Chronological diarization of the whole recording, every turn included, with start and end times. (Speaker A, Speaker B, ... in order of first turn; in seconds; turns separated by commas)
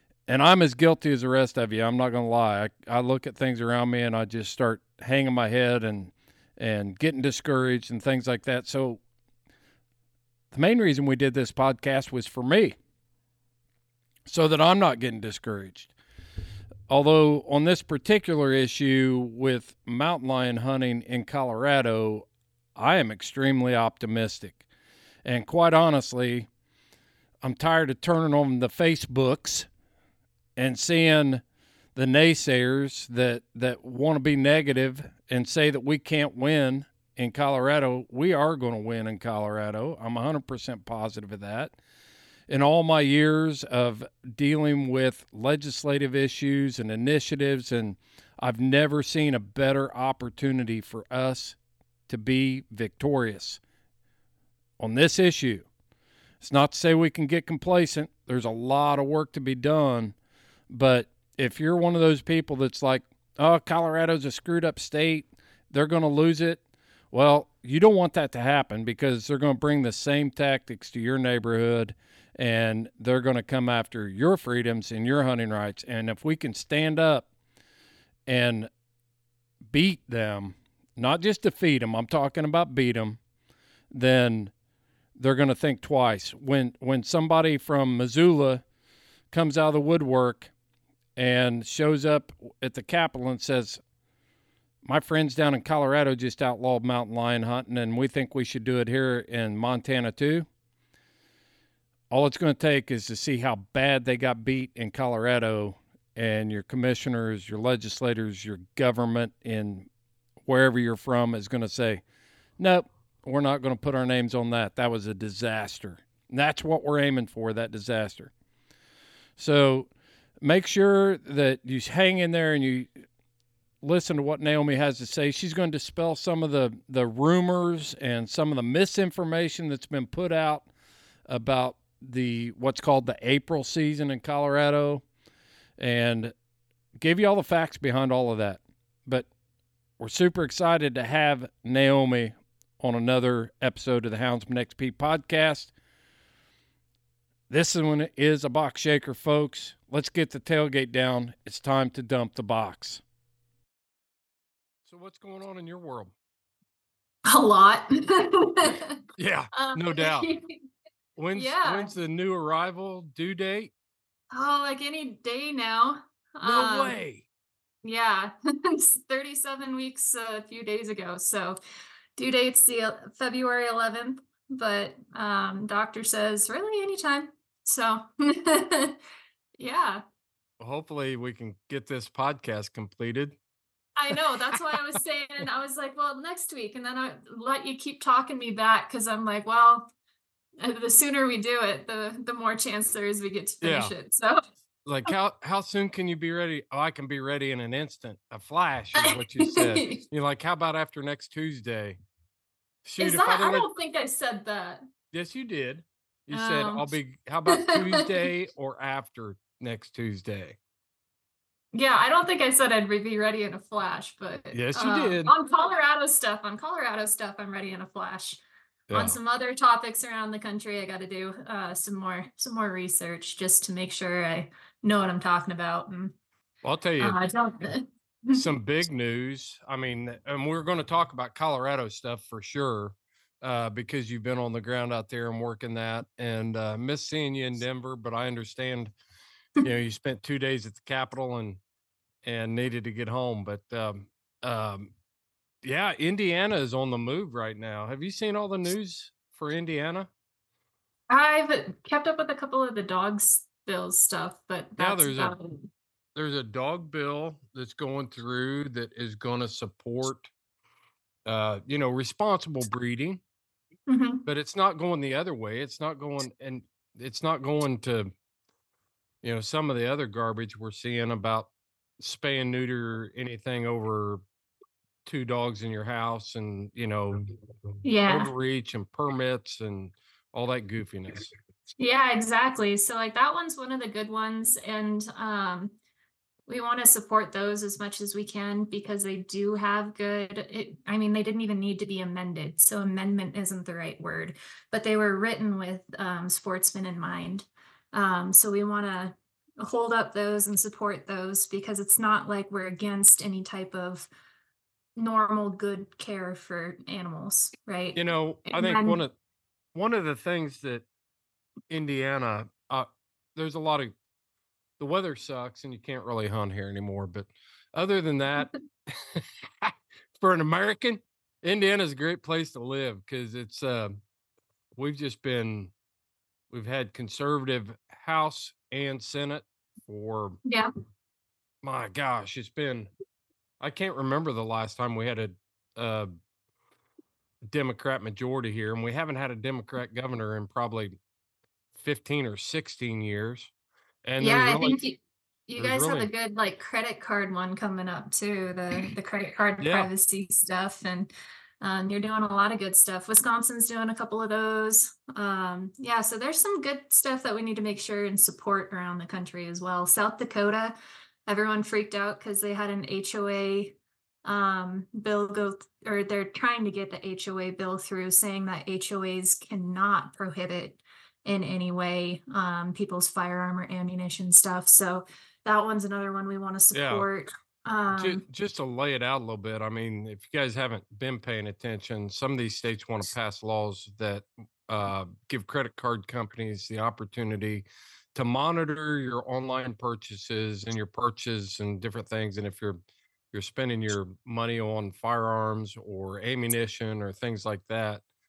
Speaker A: 0.3-9.0, Speaker A: 10.5-12.8, Speaker A: 14.3-15.9, Speaker A: 16.9-24.6, Speaker A: 25.2-26.5, Speaker A: 27.4-29.7, Speaker A: 30.6-31.4, Speaker A: 31.9-41.8, Speaker A: 42.5-51.6, Speaker A: 52.1-53.6, Speaker A: 54.8-55.6, Speaker A: 56.4-60.1, Speaker A: 60.7-66.6, Speaker A: 67.1-77.3, Speaker A: 78.3-78.7, Speaker A: 79.7-83.2, Speaker A: 83.9-84.5, Speaker A: 85.2-88.6, Speaker A: 89.3-90.5, Speaker A: 91.2-93.8, Speaker A: 94.8-100.5, Speaker A: 102.1-109.9, Speaker A: 110.5-112.0, Speaker A: 112.6-118.3, Speaker A: 119.4-119.9, Speaker A: 120.4-122.9, Speaker A: 123.8-130.7, Speaker A: 131.3-135.0, Speaker A: 135.8-136.3, Speaker A: 137.0-139.3, Speaker A: 140.0-145.7, Speaker A: 147.5-153.0, Speaker A: 154.9-156.1, Speaker B: 157.3-159.0, Speaker A: 159.2-160.3, Speaker B: 159.5-160.7, Speaker A: 161.2-163.7, Speaker B: 161.3-161.9, Speaker B: 164.3-167.0, Speaker A: 166.4-167.2, Speaker B: 167.8-171.6, Speaker B: 172.2-179.0, Speaker B: 179.6-180.0, Speaker A: 180.6-183.4, Speaker B: 184.0-189.9, Speaker A: 184.5-185.0, Speaker B: 190.6-194.4, Speaker A: 193.6-193.9, Speaker A: 194.9-202.0, Speaker B: 199.0-200.0, Speaker A: 202.8-203.7, Speaker B: 203.0-204.8, Speaker A: 205.1-210.6, Speaker B: 206.3-206.9, Speaker B: 207.5-208.1, Speaker B: 211.7-218.4, Speaker A: 214.5-215.3, Speaker A: 218.9-219.2, Speaker B: 218.9-226.2, Speaker A: 226.6-227.2, Speaker B: 227.0-228.4, Speaker A: 228.3-238.9, Speaker A: 239.6-241.6, Speaker A: 242.2-244.9, Speaker A: 245.6-250.1, Speaker B: 251.1-255.7, Speaker A: 254.8-255.3, Speaker A: 256.1-260.3, Speaker A: 261.3-263.2, Speaker B: 263.9-264.3, Speaker A: 264.3-268.1, Speaker A: 269.2-274.2, Speaker A: 275.1-277.3, Speaker B: 277.8-278.3, Speaker A: 278.1-281.3, Speaker B: 281.8-285.7, Speaker B: 286.5-304.1, Speaker B: 305.0-309.0, Speaker A: 307.9-309.1, Speaker A: 309.8-310.9, Speaker A: 311.7-313.9, Speaker A: 314.8-324.0, Speaker A: 324.8-325.7, Speaker A: 326.5-330.4, Speaker A: 331.6-332.9, Speaker A: 333.6-336.1, Speaker A: 337.5-341.0, Speaker A: 341.8-343.5, Speaker A: 344.1-344.8, Speaker B: 344.2-360.8, Speaker A: 345.6-346.1, Speaker A: 349.6-349.9, Speaker B: 361.3-378.2, Speaker A: 376.7-377.1, Speaker A: 377.9-392.8, Speaker A: 393.3-398.0